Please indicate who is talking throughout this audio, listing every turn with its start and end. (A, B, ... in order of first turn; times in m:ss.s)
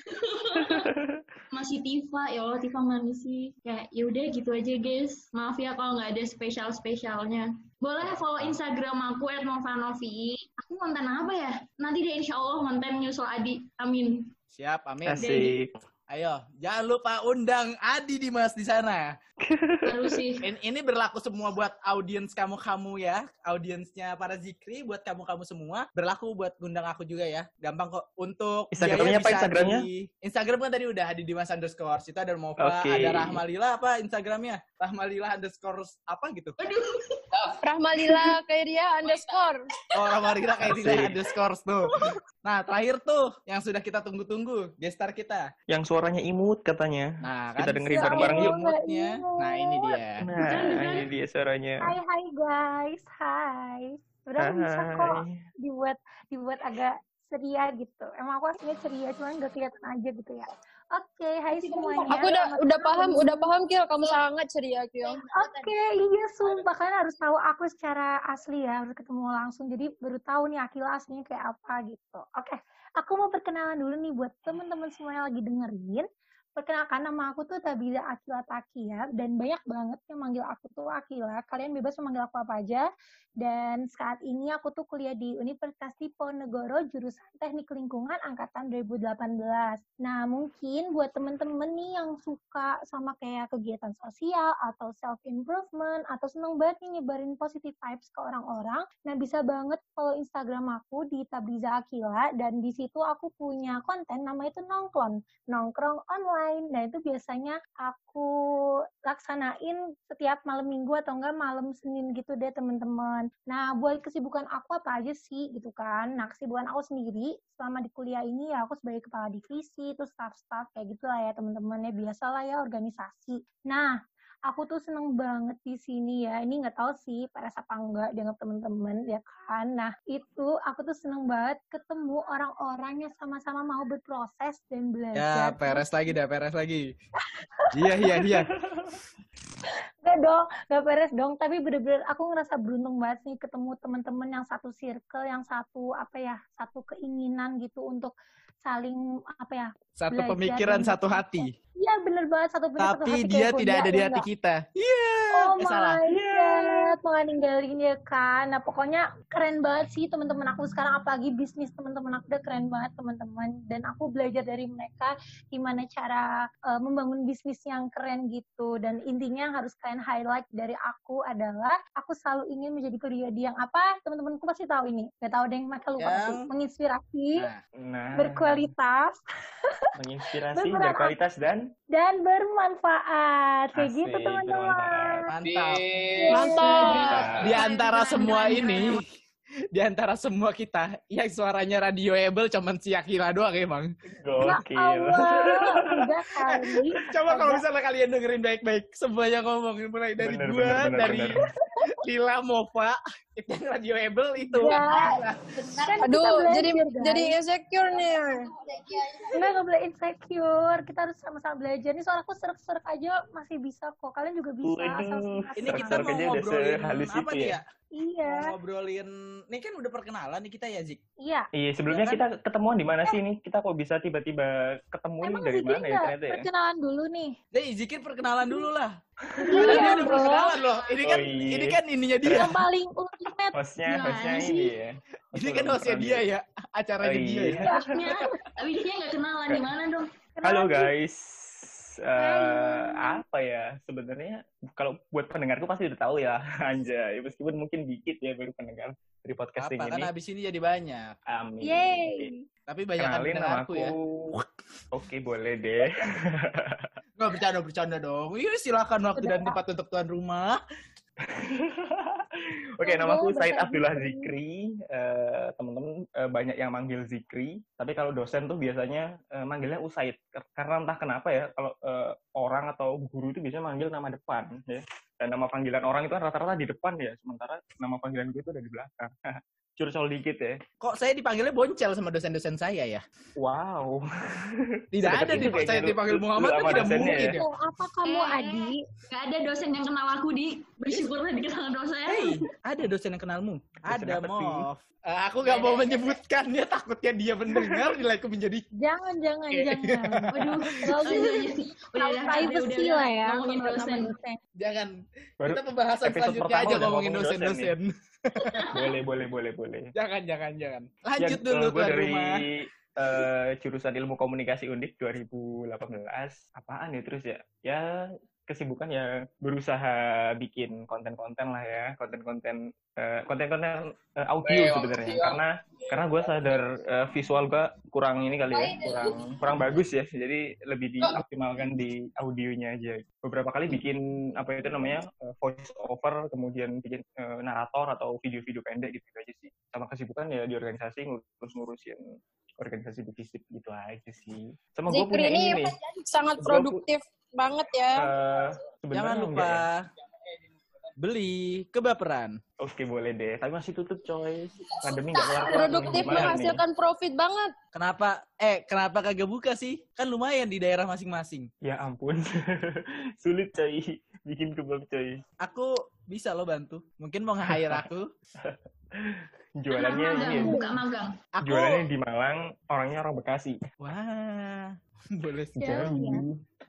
0:00.1-0:00.9 A
0:00.7-0:01.2 B
0:01.5-0:14.3 A
0:14.5-0:15.3 C
0:15.0-0:15.8 B
0:15.2-0:15.6 A
0:16.1-0:19.1 C
0:19.4-0:20.2 B
0:19.9-0:20.4 A
0:20.4-0:36.6 C
0:28.7-0:29.9 B
0:32.6-0:33.4 B
0:36.6-0:37.5 A
0:37.6-0:39.6 D
0:39.9-0:45.5 C
0:40.6-0:41.2 B
0:45.7-0:48.6 B
0:47.2-0:50.2 C
0:48.0-0:50.0 E
0:50.2-0:52.0 B
0:50.4-0:51.1 A
0:51.8-1:03.5 E
0:54.4-0:55.4 B
1:01.6-1:02.3 A
1:02.1-1:05.2 D
1:05.2-1:05.7 A
1:05.3-1:22.9 E
1:23.4-2:04.0 E
2:04.5-2:16.1 E
2:15.1-2:16.9 C
2:17.6-2:18.3 E
2:17.7-2:18.5 C
2:20.0-2:34.2 E
2:30.0-2:31.5 C
2:32.8-2:36.0 C
2:35.4-2:57.5 E
2:36.1-2:36.4 B
2:56.0-2:56.5 C
2:57.4-2:57.6 C
2:57.8-2:58.7 B
2:58.2-2:59.2 E
2:59.9-3:01.7 B
3:00.5-3:01.2 E
3:01.9-3:05.2 E
3:03.8-3:05.3 B
3:05.3-3:09.0 C
3:06.1-3:09.0 E
3:06.4-3:07.6 D
3:06.7-3:08.8 A
3:07.0-3:07.5 B
3:09.7-3:13.9 C
3:14.2-3:16.0 B
3:14.4-3:17.6 E
3:16.5-3:21.3 C
3:20.2-3:21.4 B
3:21.9-3:25.5 C
3:24.4-3:25.1 E
3:24.6-3:24.9 D
3:25.8-3:27.4 E
3:26.0-3:28.5 D
3:29.3-3:36.1 E
3:34.6-3:37.6 B
3:35.6-3:37.6 C
3:38.0-3:38.5 E
3:38.3-3:41.0 C
3:41.5-3:46.5 B
3:41.9-3:42.2 C
3:45.2-3:47.4 E
3:47.5-3:48.9 C
3:49.3-3:49.7 B
3:49.4-3:50.5 E
3:49.5-3:52.6 C
3:49.5-3:51.1 A
3:51.0-3:52.6 B
3:52.3-3:53.5 E
3:53.5-3:56.2 B
3:53.9-3:54.8 A
3:55.4-3:57.7 C
3:57.0-3:57.9 B
3:57.7-3:58.2 E
3:57.9-4:00.1 A
4:00.4-4:00.9 E
4:00.4-4:10.1 B
4:02.2-4:03.2 E
4:09.6-4:11.1 C
4:11.3-4:12.3 B
4:11.6-4:12.4 E
4:12.7-4:14.4 C
4:13.0-4:14.4 B
4:14.9-4:16.9 B
4:17.2-4:20.6 C
4:19.2-4:19.6 E
4:21.2-4:39.1 B
4:22.8-4:24.3 E
4:39.8-4:40.6 B
4:40.8-4:43.0 C
4:43.4-4:47.4 B
4:44.9-4:47.4 C
4:46.8-4:48.8 E
4:48.0-4:52.4 A
4:52.1-4:58.6 C
4:53.9-4:54.7 B
4:55.4-4:56.1 A
4:57.5-4:57.9 B
4:58.8-5:04.4 E
4:59.5-5:01.3 C
5:00.3-5:04.1 A
5:04.6-5:08.7 C
5:05.4-5:07.8 B
5:08.4-5:08.9 A
5:08.7-5:09.9 B
5:10.0-5:12.3 C
5:11.2-5:17.8 B
5:18.5-5:42.0 B
5:42.6-5:45.8 B
5:44.9-5:48.1 D
5:46.4-5:46.8 B
5:47.9-5:49.7 B
5:48.9-5:49.9 C
5:51.0-5:52.4 C
5:52.6-5:56.6 B
5:55.1-5:57.5 D
5:55.9-5:56.4 C
5:57.7-6:01.5 C
6:01.6-6:05.2 B
6:05.4-6:08.1 C
6:07.5-6:07.8 B
6:08.4-6:10.6 B
6:09.7-6:11.1 A
6:10.1-6:10.8 E
6:11.4-6:11.9 C
6:11.4-6:13.6 B
6:13.8-6:15.9 C
6:15.6-6:16.2 E
6:15.6-6:16.4 B